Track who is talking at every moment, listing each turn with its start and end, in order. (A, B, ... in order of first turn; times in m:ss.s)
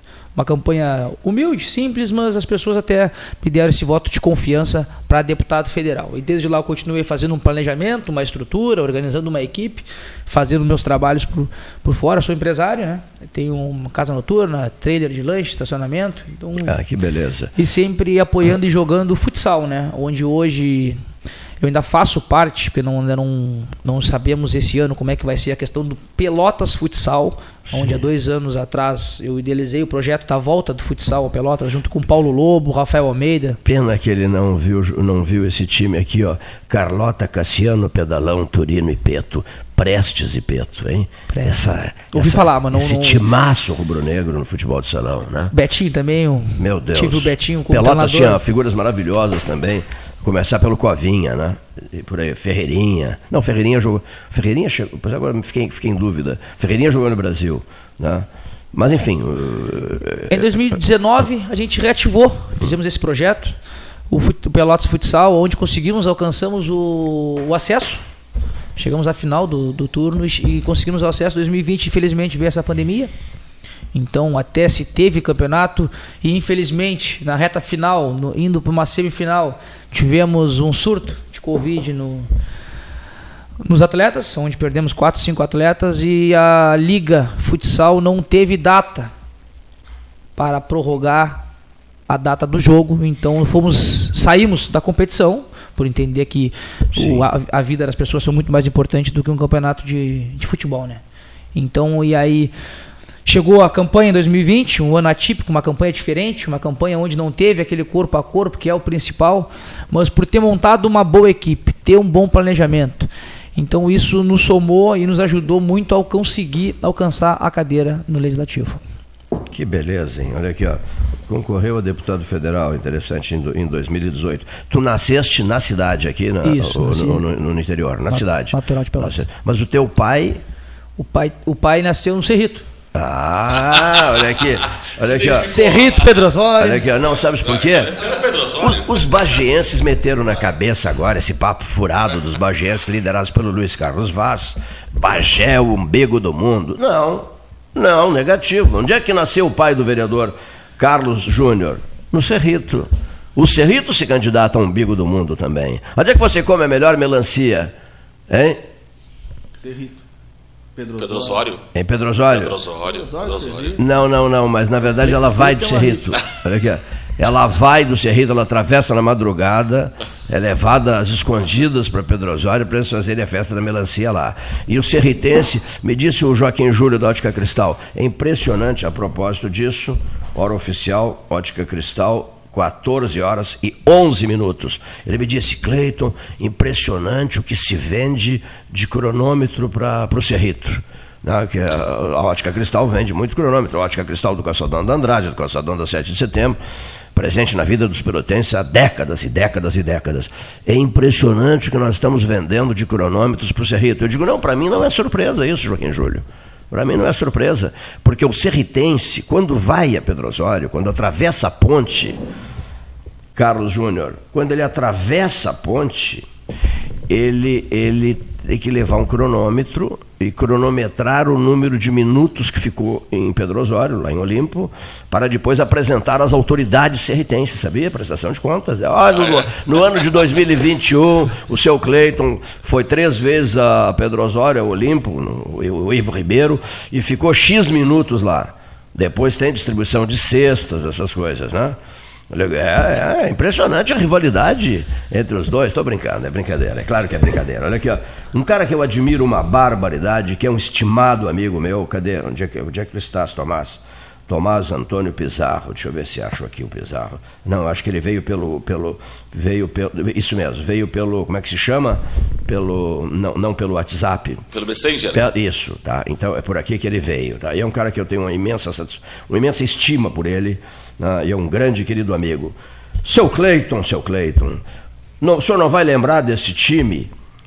0:00.3-0:16.8 A
0:16.6-0:17.5 B
0:17.5-0:21.0 A
0:21.6-0:33.6 A
0:27.7-0:28.0 B
0:33.6-0:45.5 B
0:41.3-0:43.2 A
0:45.5-0:48.4 A
0:46.5-1:00.5 B
1:00.3-1:03.5 A
1:04.1-1:08.0 A
1:08.8-1:13.1 A
1:13.9-1:22.3 A
1:23.6-1:29.1 A
1:30.4-1:31.4 A
1:32.1-1:41.0 A
1:36.9-1:37.2 B
1:41.5-1:42.5 A
1:43.2-1:58.8 A
1:59.5-2:10.4 B
2:06.4-2:07.2 A
2:08.1-2:09.2 A
2:11.0-2:12.6 A
2:12.9-2:15.5 B
2:15.0-2:16.1 C
2:15.4-2:16.8 A
2:16.6-2:18.0 B
2:17.4-2:19.2 C
2:18.6-2:37.7 B
2:38.3-2:38.6 B
2:39.6-2:40.0 D
2:40.8-2:41.5 D
2:41.0-2:41.6 C
2:41.7-2:42.6 B
2:42.3-2:43.8 C
2:42.7-2:43.9 D
2:43.8-3:16.6 B
2:45.0-2:46.1 D
3:17.1-3:32.2 B
3:33.3-3:36.2 B
3:37.1-4:01.8 B
3:49.1-3:49.4 C
4:02.3-4:24.4 B
4:24.5-4:25.2 C
4:25.1-4:34.6 B
4:35.2-4:37.1 B